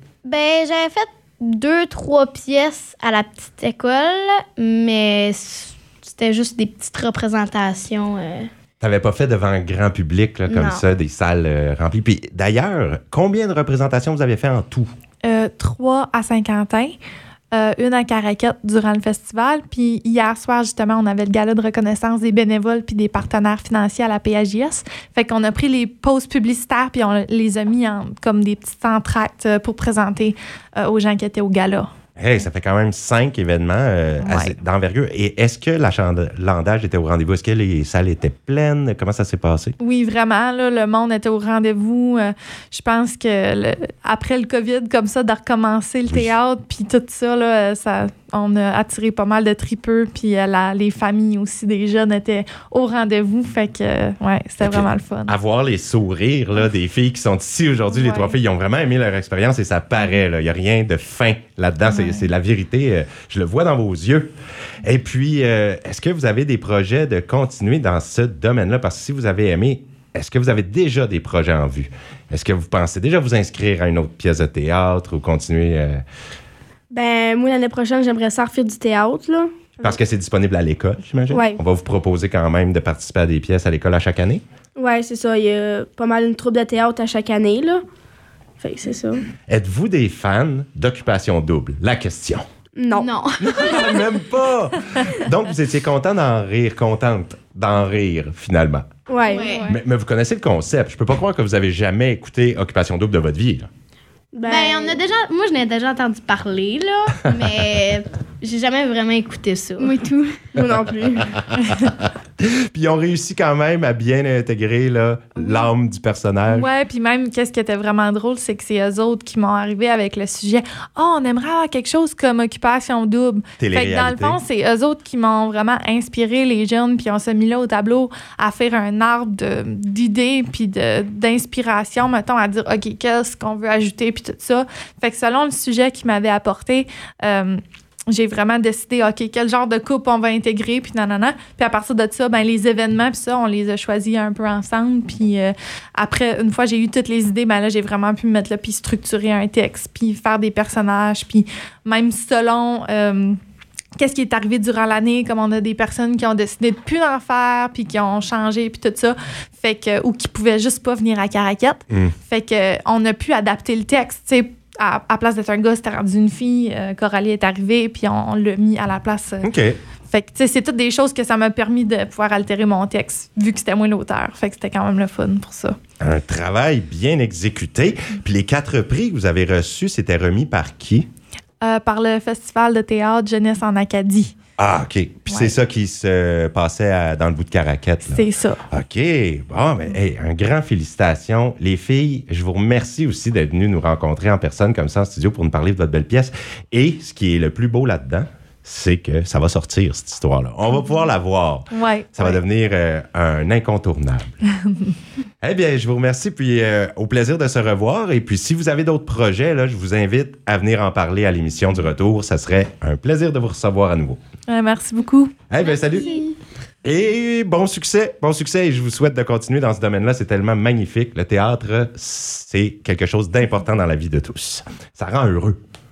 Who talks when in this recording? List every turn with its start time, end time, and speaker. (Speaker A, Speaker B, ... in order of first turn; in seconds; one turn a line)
Speaker A: 0.2-8.5
Speaker B: 8.8-14.9
Speaker A: 10.5-10.8
Speaker C: 15.2-17.0
Speaker C: 17.5-31.9
Speaker B: 32.2-39.8
Speaker C: 34.2-34.6
Speaker C: 39.8-55.4
Speaker B: 54.6-64.3
Speaker C: 57.9-58.4
Speaker C: 61.9-62.3
Speaker B: 64.8-76.0
Speaker D: 76.9-79.5
Speaker B: 79.8-84.4
Speaker D: 81.3-81.6
Speaker D: 84.8-87.8
Speaker D: 88.6-89.2
Speaker B: 89.5-92.4
Speaker D: 92.8-93.1
Speaker A: 93.0-94.0
Speaker B: 93.4-98.9
Speaker D: 99.1-99.5
Speaker A: 99.3-99.7
Speaker C: 99.3-99.8
Speaker B: 99.7-103.7
Speaker D: 104.3-105.0
Speaker A: 104.5-110.4
Speaker D: 110.5-111.3
Speaker B: 111.4-116.7
Speaker C: 115.4-115.7
Speaker C: 116.5-153.4
Speaker B: 123.6-124.4
Speaker C: 154.0-169.5
Speaker B: 169.4-169.8
Speaker C: 170.1-175.8
Speaker B: 176.0-181.1
Speaker C: 181.6-184.3
Speaker B: 184.6-204.4
Speaker C: 185.3-185.5
Speaker C: 188.1-188.6
Speaker C: 201.7-202.4
Speaker B: 205.4-214.2
Speaker C: 214.5-215.5
Speaker B: 215.5-216.2
Speaker A: 215.6-216.2
Speaker B: 216.8-225.6